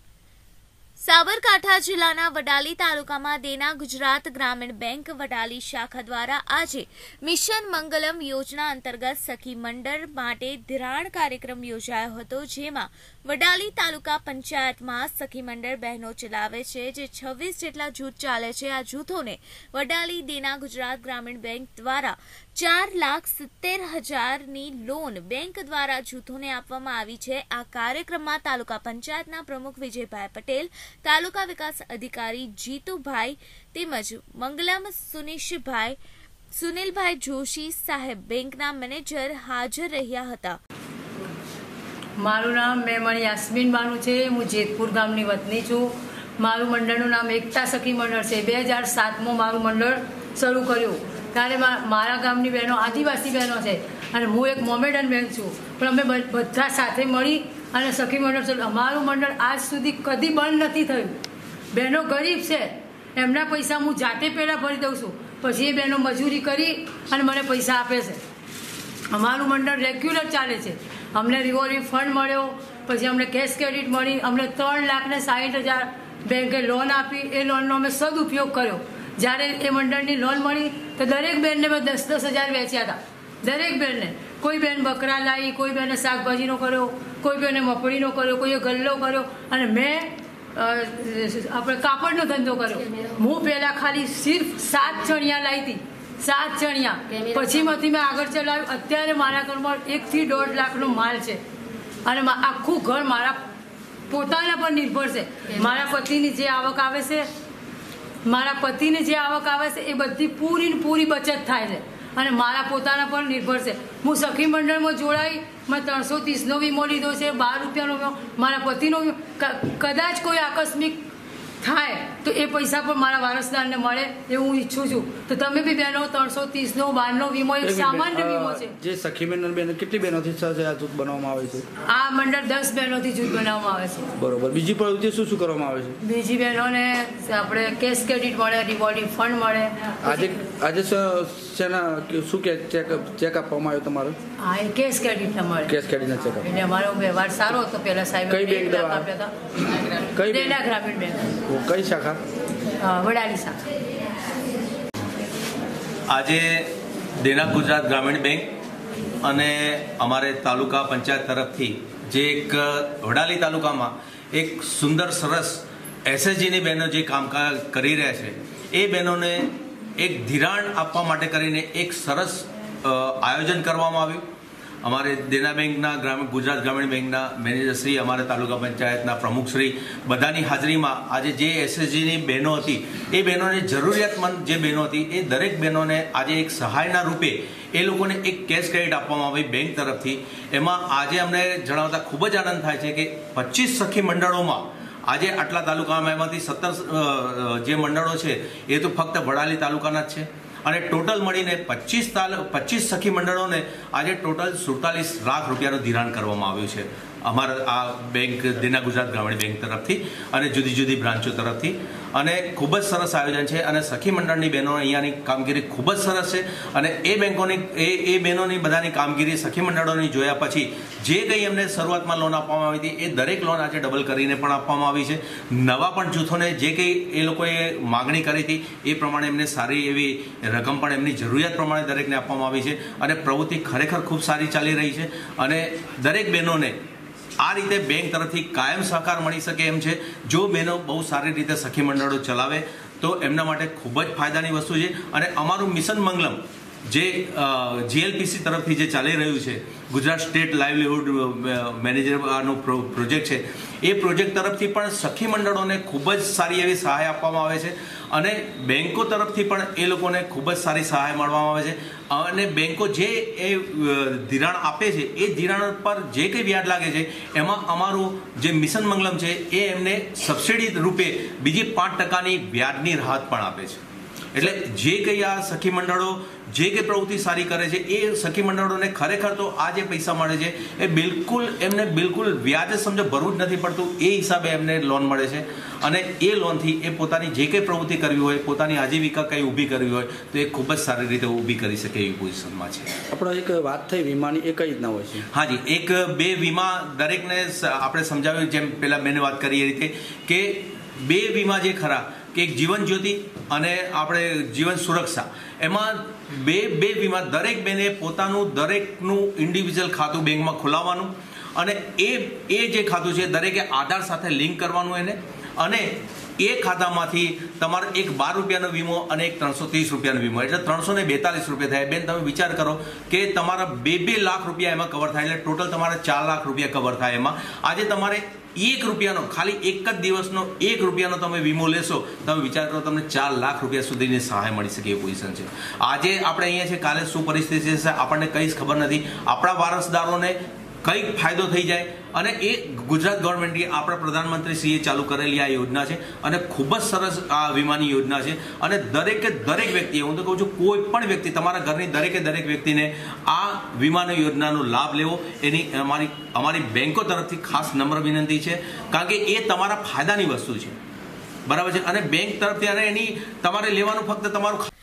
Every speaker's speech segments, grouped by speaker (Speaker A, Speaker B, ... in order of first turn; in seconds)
Speaker A: 1.0-36.0, 36.5-40.6
Speaker B: 42.2-61.1, 61.7-68.2, 69.1-101.4, 102.0-103.4, 104.1-107.2, 108.2-121.0, 121.6-128.7, 131.8-134.1, 136.0-139.9, 144.4-145.8, 146.4-149.3, 150.2-151.3, 152.8-153.6
Speaker C: 127.6-131.6, 134.2-136.0, 140.0-144.2, 145.7-146.5, 148.3-149.1, 150.1-150.6, 151.5-152.2, 293.1-295.2
Speaker D: 156.1-158.6, 159.2-174.2, 174.8-236.8, 237.4-273.8, 274.3-292.9, 295.3-360.7, 361.5-364.7